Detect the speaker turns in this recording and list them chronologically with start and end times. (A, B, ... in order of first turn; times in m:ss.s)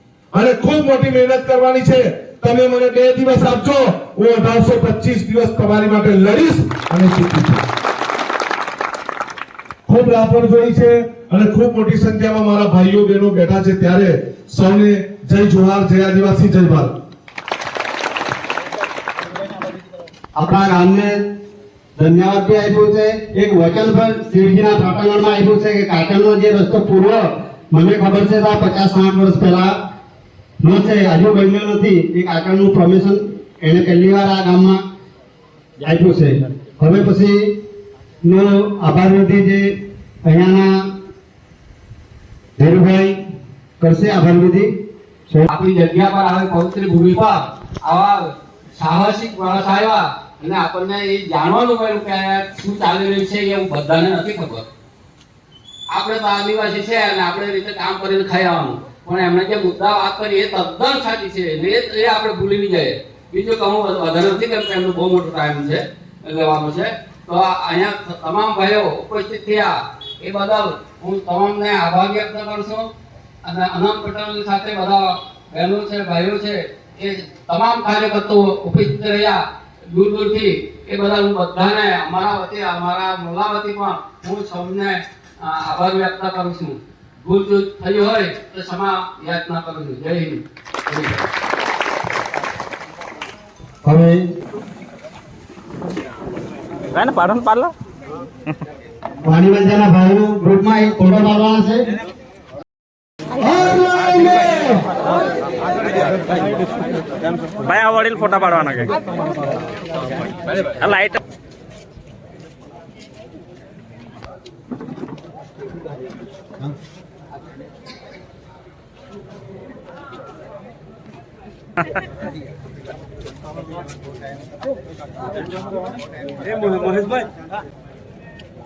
0:00.3-0:07.6 A
0:09.9-0:16.9 A
0:20.4-0:21.2 B
0:22.0-0:29.8 B
0:30.6-0:34.8 B
0:35.8-0:37.6 B
0:38.2-0:40.8 B
0:42.6-0:43.2 B
0:43.8-0:44.8 B
0:45.5-0:54.6 C
0:55.9-1:12.9 C
1:13.4-1:31.2 C
1:33.8-1:34.3 B
1:36.9-1:37.7 D
1:39.2-1:41.9 B
1:43.4-1:44.8 B
1:47.6-1:48.9 D
1:50.6-1:51.2 D